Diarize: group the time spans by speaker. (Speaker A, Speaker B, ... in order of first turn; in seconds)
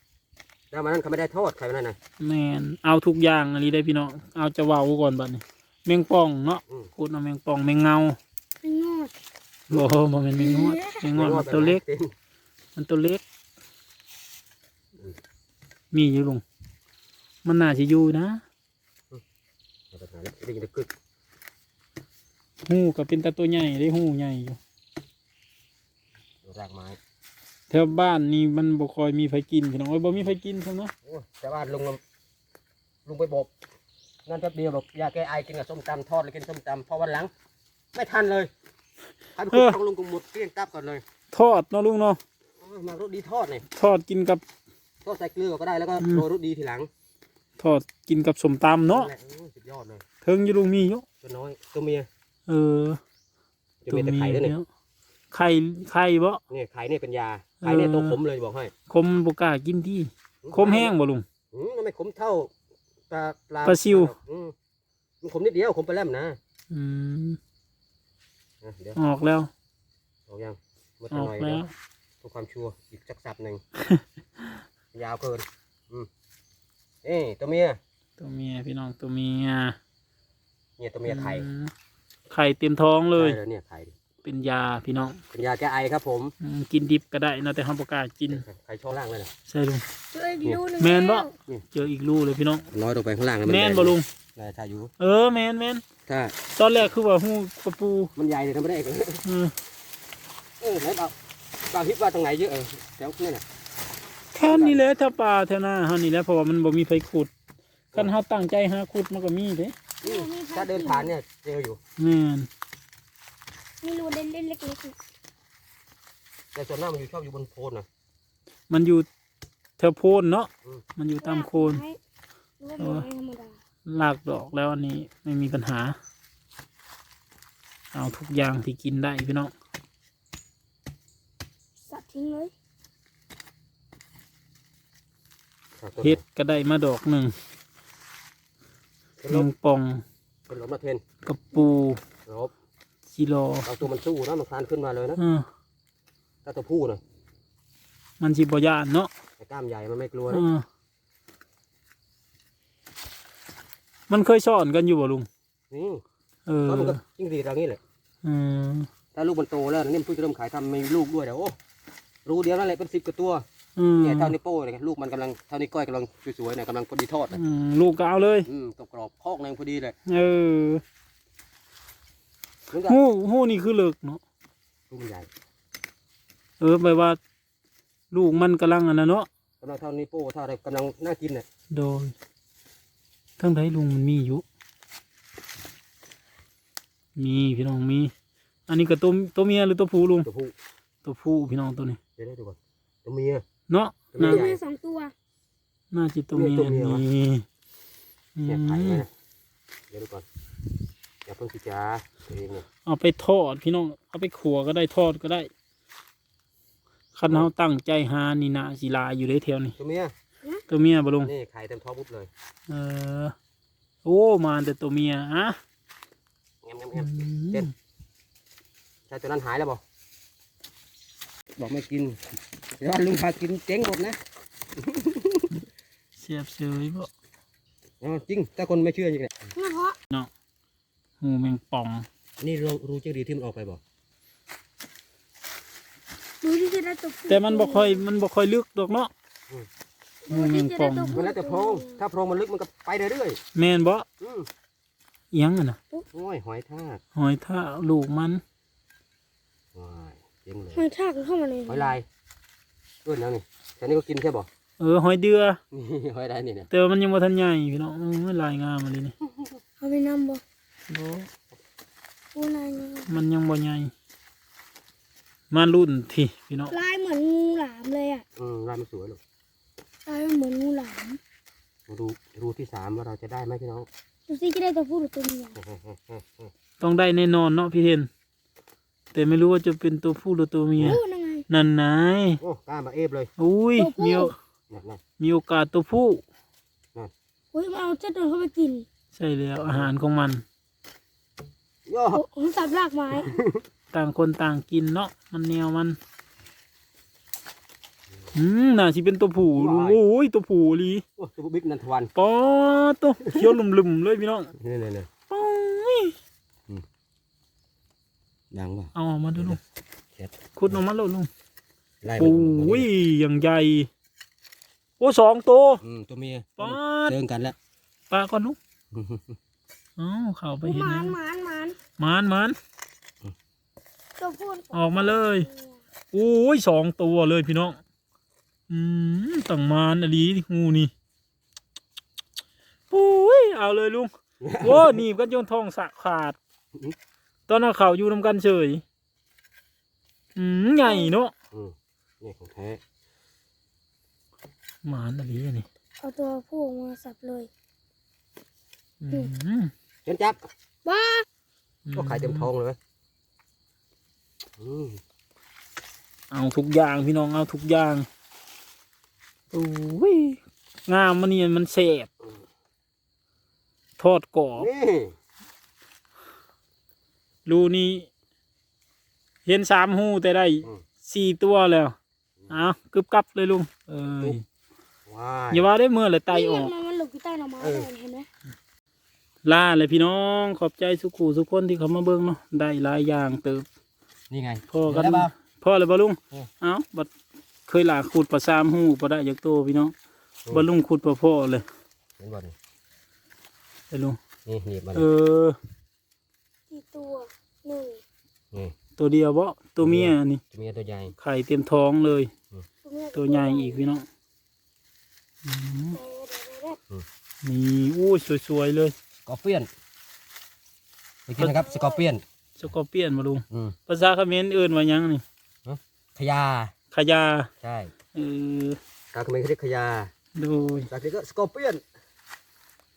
Speaker A: 0.7-2.0, 11.1-12.1, 19.9-20.9, 26.4-27.0, 31.0-32.0, 33.0-33.5, 34.2-37.3, 37.9-38.5, 39.3-41.0, 42.6-43.6, 45.0-46.9, 48.9-50.0, 51.2-52.1, 53.8-54.5, 56.5-58.7, 60.4-60.9, 61.5-62.5, 63.1-64.5, 65.2-66.4, 68.6-69.0, 70.3-71.6, 72.2-73.6, 74.9-76.1, 77.0-77.8, 80.8-81.5, 83.1-83.9, 85.3-86.3, 88.3-89.3, 92.7-94.9, 96.0-96.3, 98.2-99.2, 100.6-101.2, 101.7-103.4, 104.4-104.8, 110.0-111.8, 116.5-117.9, 135.8-136.2, 139.2-139.5, 140.5-141.0, 142.2-142.5, 143.6-145.2, 146.4-147.0, 149.4-150.4, 155.7-156.0, 156.7-157.8, 159.1-161.6, 162.2-163.4, 164.0-167.4, 168.5-169.9, 172.7-173.0, 174.9-175.3, 179.6-181.4, 190.2-190.5, 192.2-193.4, 194.1-194.6, 196.3-197.0, 198.4-199.1, 199.9-200.2, 201.2-202.7, 209.8-210.1, 211.2-212.3, 216.6-217.7, 219.1-219.8, 221.6-222.2, 222.8-224.2, 224.8-225.6, 228.0-229.5, 232.4-233.8, 241.1-243.4, 244.2-244.5, 246.1-247.0, 249.7-250.8, 251.7-252.1, 253.0-254.5, 255.7-256.7, 259.3-259.6, 268.4-269.2, 271.9-273.9, 275.6-276.5, 282.4-283.3, 284.7-285.0, 289.6-289.9, 291.9-292.2, 293.1-293.6, 299.6-300.0, 301.2-302.1, 303.2-303.5, 304.6-305.1, 308.5-309.6, 310.1-310.8, 312.0-312.9, 315.8-317.6, 318.9-319.4, 334.4-335.0, 341.5-342.8, 350.1-350.4, 351.9-352.8, 354.6-355.0, 364.6-365.1, 375.1-375.7, 377.6-377.9, 384.3-385.3, 392.2-392.5, 394.4-395.1, 399.8-401.1, 409.2-409.7, 411.3-412.2, 415.6-416.7, 417.6-417.9, 419.1-420.1, 420.9-421.8
Speaker B: 2.2-8.2, 9.7-11.8, 12.8-13.2, 15.9-16.4, 17.4-18.4, 22.6-24.6, 27.7-30.9, 39.5-39.8, 41.3-42.2, 43.7-44.4, 46.0-46.2, 47.6-49.1, 50.2-51.0, 52.5-53.0, 53.9-54.7, 55.3-56.4, 57.6-58.1, 58.9-61.2, 63.6-64.1, 66.7-67.4, 69.0-69.5, 71.1-71.7, 78.2-79.8, 81.0-81.7, 82.3-83.4, 84.2-85.2, 86.4-88.4, 89.5-89.8, 90.8-92.7, 93.4-94.0, 95.0-95.8, 96.5-98.1, 99.2-99.5, 104.3-107.3, 107.9-109.7, 112.0-112.5, 118.7-119.1, 119.8-121.8, 122.8-123.0, 123.9-126.0, 127.9-129.5, 136.0-137.3, 139.3-140.0, 141.2-142.0, 143.1-143.7, 145.2-145.5, 148.2-149.1, 150.3-150.6, 154.1-155.3, 156.5-157.0, 158.2-158.9, 163.8-164.3, 167.3-168.5, 170.1-170.8, 172.8-174.2, 176.6-177.2, 178.1-179.3, 181.7-182.1, 183.4-184.4, 187.2-188.1, 188.7-190.3, 191.0-192.0, 193.7-194.4, 195.9-197.4, 198.3-199.0, 202.8-205.5, 207.1-209.7, 210.7-211.3, 212.7-213.3, 214.0-215.6, 216.9-217.7, 226.2-227.1, 231.2-232.1, 237.3-239.1, 240.3-241.2, 243.5-244.1, 245.3-245.8, 247.1-248.4, 254.8-255.6, 256.7-259.1, 260.9-261.3, 263.1-263.9, 265.5-266.7, 276.8-278.1, 279.1-282.4, 283.4-284.3, 285.2-286.2, 289.1-290.4, 293.9-296.0, 298.3-301.0, 302.1-304.5, 305.3-306.1, 308.9-309.6, 310.5-311.3, 312.2-313.9, 315.0-315.8, 316.6-317.2, 318.1-318.6, 320.0-321.2, 322.0-322.6, 324.7-325.5, 326.1-327.8, 328.7-330.9, 332.9-336.4, 337.5-338.8, 340.4-341.3, 344.8-345.6, 349.0-349.7, 351.9-352.5, 356.3-358.1, 359.5-362.1, 364.0-364.7, 367.4-368.1, 369.4-371.9, 372.5-374.4, 375.5-376.7, 379.4-383.6, 384.7-387.1, 387.7-389.9, 390.5-391.6, 393.9-394.2, 394.9-395.6, 399.0-400.4, 401.2-402.3, 403.1-404.1, 405.4-406.0, 407.4-408.9, 412.6-415.2, 416.9-417.5, 418.1-418.8, 420.4-420.9
Speaker C: 8.6-9.1, 10.4-11.0, 90.1-91.3, 110.0-111.1, 113.8-115.0, 121.2-122.0, 122.6-123.6, 131.8-132.5, 194.2-195.1, 229.5-230.0, 236.4-238.1, 240.2-242.0, 250.8-251.9, 259.8-260.4, 262.3-263.1, 266.7-268.2, 270.1-271.2, 274.3-275.6, 280.8-281.4, 283.8-284.3, 287.5-288.9, 292.1-293.3, 320.6-321.8, 324.2-325.8, 340.9-341.1, 346.0-347.5, 350.8-351.2, 376.3-378.3, 396.7-398.0, 402.8-403.9, 405.9-406.8, 411.6-411.9